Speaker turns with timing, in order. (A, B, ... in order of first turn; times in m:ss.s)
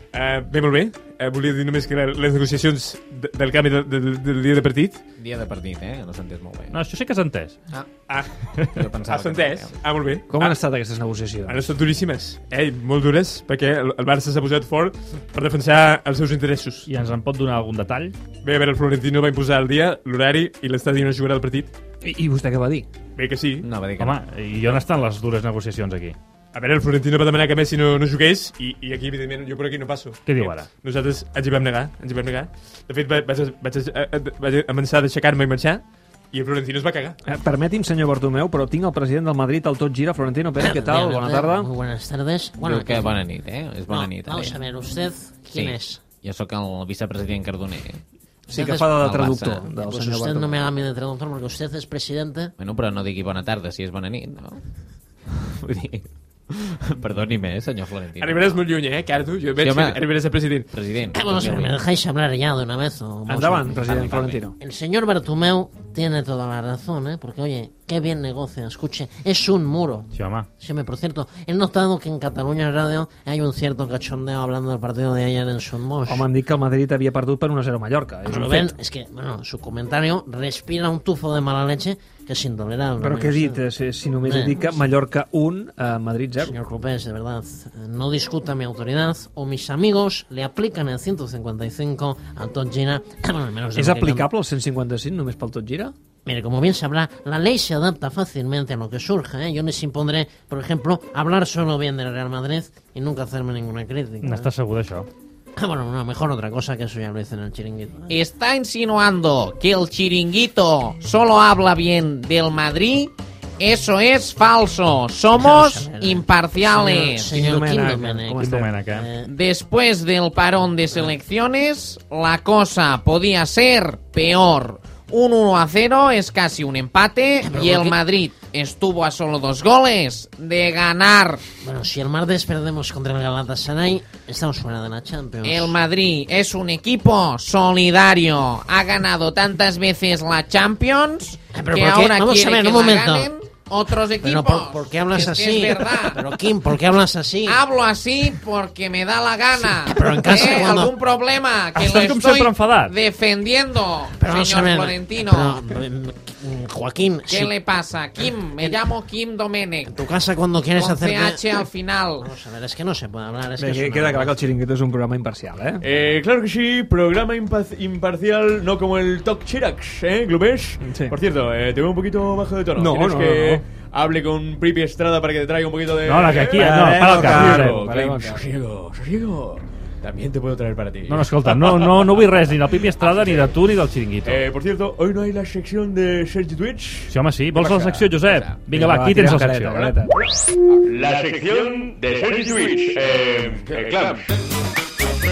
0:00.1-0:05.0 A
0:05.2-0:06.8 B
0:06.7-0:07.6 C
0:08.0-0:10.6 A
0:08.6-0:08.9 C
0:08.8-0:09.7 B
0:10.3-0:11.6 D
0:11.5-0:16.8 A
0:16.9-0:18.1 C
0:18.4-0:21.7 A
0:22.0-0:22.9 D
0:23.2-0:23.6 A
0:23.6-0:24.2 B
0:24.0-0:26.2 C
0:26.5-0:37.1 A
0:30.2-0:30.7 C
0:37.2-0:41.7 D
0:40.6-0:43.2 E
0:42.6-0:44.6 B
0:43.9-0:46.1 E
0:45.5-0:48.0 B
0:48.5-0:50.7 D
0:48.5-0:49.0 E
0:48.9-0:49.6 B
0:49.6-0:52.5 E
0:52.6-0:54.6 B
0:55.7-0:56.0 B
0:57.0-0:58.5 B
0:58.2-1:00.7 A
0:59.6-0:59.9 B
1:00.7-1:01.8 B
1:01.1-1:16.3 E
1:03.2-1:04.5 D
1:03.7-1:04.4 B
1:10.1-1:10.5 C
1:16.1-1:18.7 D
1:18.3-1:23.6 E
1:23.0-1:26.6 D
1:24.2-1:24.8 E
1:26.4-1:34.3 E
1:33.7-1:35.9 D
1:36.2-1:44.5 E
1:44.2-1:45.1 C
1:45.6-1:48.0 E
1:48.0-1:57.5 F
1:55.3-1:59.2 E
1:57.3-1:58.5 D
1:58.3-1:59.1 C
1:59.2-2:11.5 F
2:07.4-2:08.0 E
2:11.6-2:15.7 E
2:15.4-2:26.5 F
2:21.5-2:23.2 E
2:24.2-2:27.6 E
2:27.4-2:35.7 F
2:29.7-2:30.9 E
2:31.7-2:33.0 C
2:34.2-2:37.5 E
2:37.2-2:40.2 F
2:39.9-2:41.7 E
2:40.7-2:42.3 F
2:42.2-2:44.4 E
2:43.6-2:45.8 D
2:45.8-3:02.3 G
2:50.8-2:51.2 D
2:52.8-2:53.6 D
2:56.0-2:57.8 C
2:56.5-2:58.4 D
3:01.1-3:04.4 C
3:03.0-3:03.5 G
3:04.2-3:07.1 G
3:07.1-3:09.9 C
3:07.7-3:08.0 D
3:08.2-3:08.6 G
3:08.7-3:10.1 D
3:10.9-3:14.2 H